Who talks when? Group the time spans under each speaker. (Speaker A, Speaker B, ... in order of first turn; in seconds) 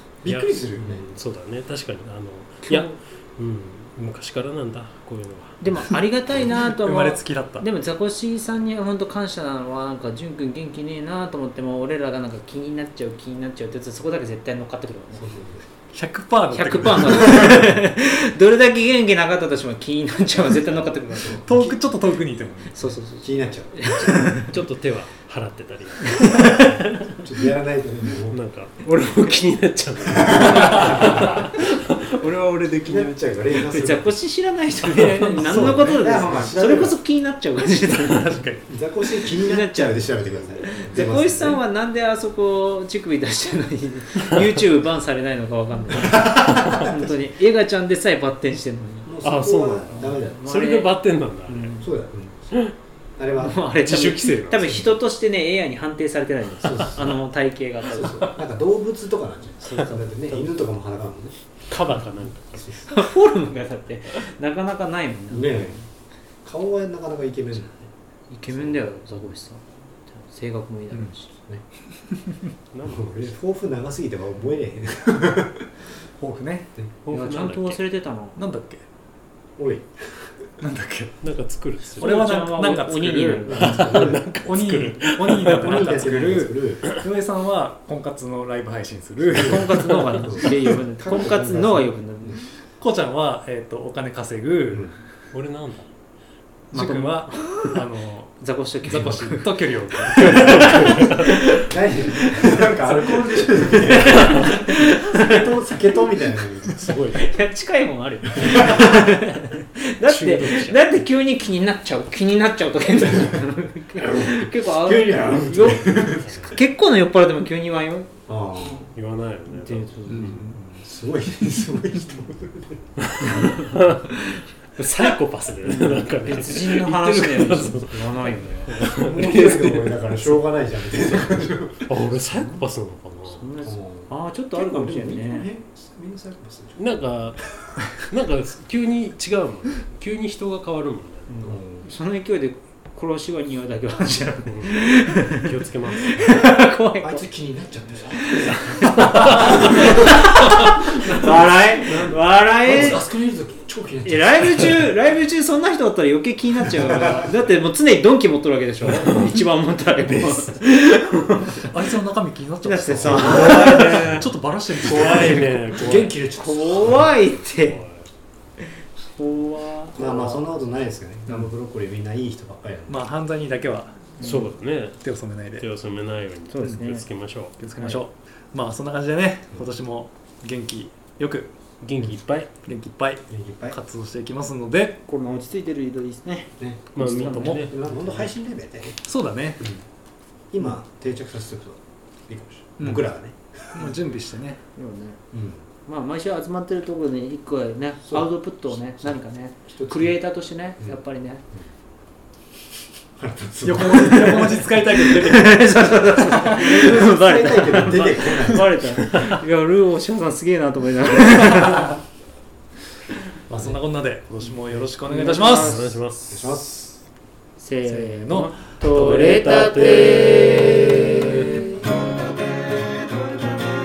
Speaker A: 0.2-1.0, 15.2-15.6, 21.1-21.4, 23.2-24.1, 27.1-28.4, 30.1-31.5, 32.8-34.1, 35.2-37.0, 38.7-41.6, 46.4-47.0, 49.0-50.4, 51.5-52.6, 53.2-53.6, 56.6-57.2, 57.8-61.3, 62.6-62.9, 65.3-65.8, 66.4-67.8, 68.5-69.0, 71.3-71.6, 72.8-75.8, 79.6-80.3, 83.5-84.3, 85.4-86.9, 90.2-92.4, 101.5-106.8, 108.3-108.9, 113.2-113.4, 114.0-116.5, 118.3-118.8, 120.6-122.8, 128.8-131.9, 133.6-136.9, 141.4-141.9, 147.0-150.1, 152.6-154.8, 156.7-157.3, 162.9-164.2, 164.8-167.1, 169.9-173.0, 183.3-183.8, 186.6-189.0, 190.5-193.9, 195.3-195.6, 199.0-200.1, 203.2-204.6, 206.4-208.8, 216.3-217.0
Speaker B: 0.2-5.6, 24.3-27.2, 28.3-33.9, 34.9-35.6, 49.2-51.8, 53.9-54.6, 61.7-62.8, 72.7-73.2, 77.0-77.8, 81.2-82.1, 83.6-86.0, 95.3-95.9, 100.2-101.3, 103.1-104.6, 106.7-107.3, 110.1-110.8, 115.6-116.6, 118.9-120.5, 123.0-130.4, 131.1-133.4, 136.8-141.3, 144.4-146.3, 149.2-149.9, 151.9-152.1, 163.1-166.2, 167.5-168.1, 174.2-175.0, 175.6-177.5, 181.8-182.5, 186.9-188.1, 215.2-216.5, 219.0-220.8
Speaker C: 2.6-2.9, 5.6-15.4, 16.5-21.8, 22.7-24.5, 26.1-26.8, 33.5-38.4, 39.2-49.1, 50.4-50.9, 51.5-51.8, 53.3-58.3, 59.6-60.6, 62.8-65.8, 68.3-71.3, 77.1-78.4, 82.0-84.2, 89.3-92.4, 96.7-97.8, 98.4-99.5, 100.1-101.6, 103.8-105.5, 107.1-118.8, 119.5-120.4, 126.2-128.8, 133.3-135.5, 141.3-145.5, 146.1-147.2, 148.4-153.0, 154.1-161.7, 162.6-164.2, 166.3-167.8, 168.6-170.4, 174.2-174.5, 176.5-177.1, 177.7-178.0, 185.1-187.6, 194.7-195.2, 195.8-201.4, 204.2-212.0, 215.0-215.9, 217.6-221.5
Speaker D: 6.3-7.7, 15.9-17.8, 21.4-22.8, 37.8-38.7, 53.9-54.8, 76.2-76.7, 78.3-78.8, 80.6-81.2, 82.0-90.2, 92.8-94.9, 96.7-101.0, 120.1-120.8, 161.6-166.0, 172.9-174.2, 175.0-175.7, 177.6-181.5, 182.6-185.0, 187.0-187.6, 189.1-189.7, 192.8-193.0, 193.7-194.6, 203.6-206.4, 213.5-215.9, 217.8-219.9